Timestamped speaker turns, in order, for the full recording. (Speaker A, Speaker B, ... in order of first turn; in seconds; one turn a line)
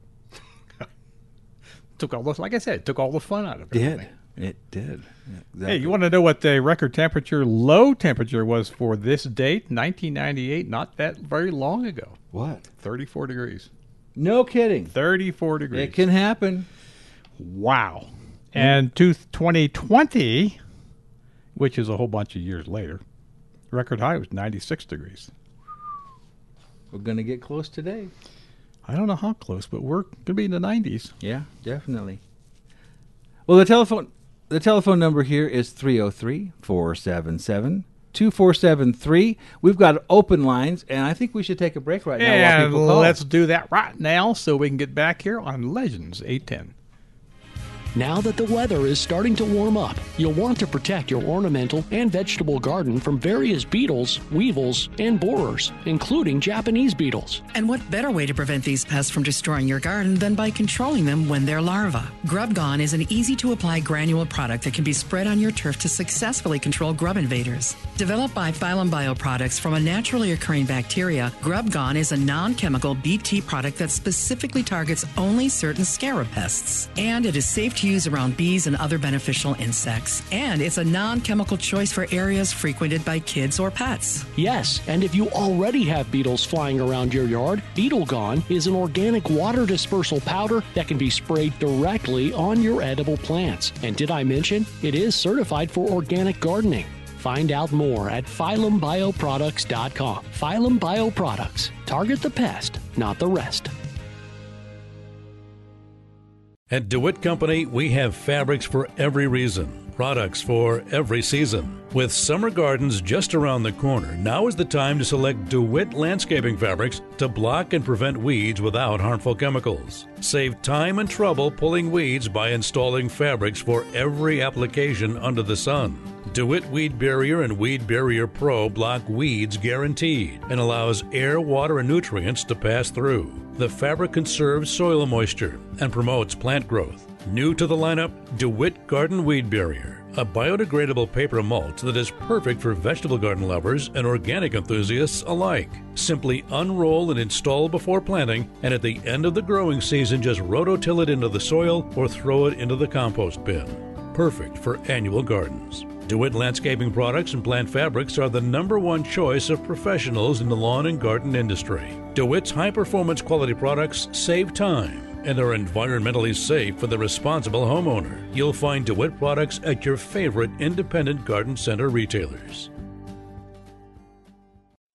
Speaker A: 2.0-4.1
Speaker B: 3.7-6.0
Speaker A: 5.7-12.2
Speaker B: 12.3-12.7
Speaker A: 12.7-13.7
Speaker B: 14.2-14.9
Speaker A: 14.9-16.0
Speaker B: 15.7-16.7
Speaker A: 17.4-20.6
Speaker A: 21.6-23.0
Speaker A: 23.7-25.3
Speaker B: 26.9-28.1
Speaker A: 28.9-31.1
Speaker B: 31.2-32.2
Speaker B: 33.5-43.2
Speaker A: 42.2-46.7
Speaker C: 48.0-57.4
Speaker D: 57.5-84.3
Speaker C: 84.4-103.7
Speaker E: 106.7-172.7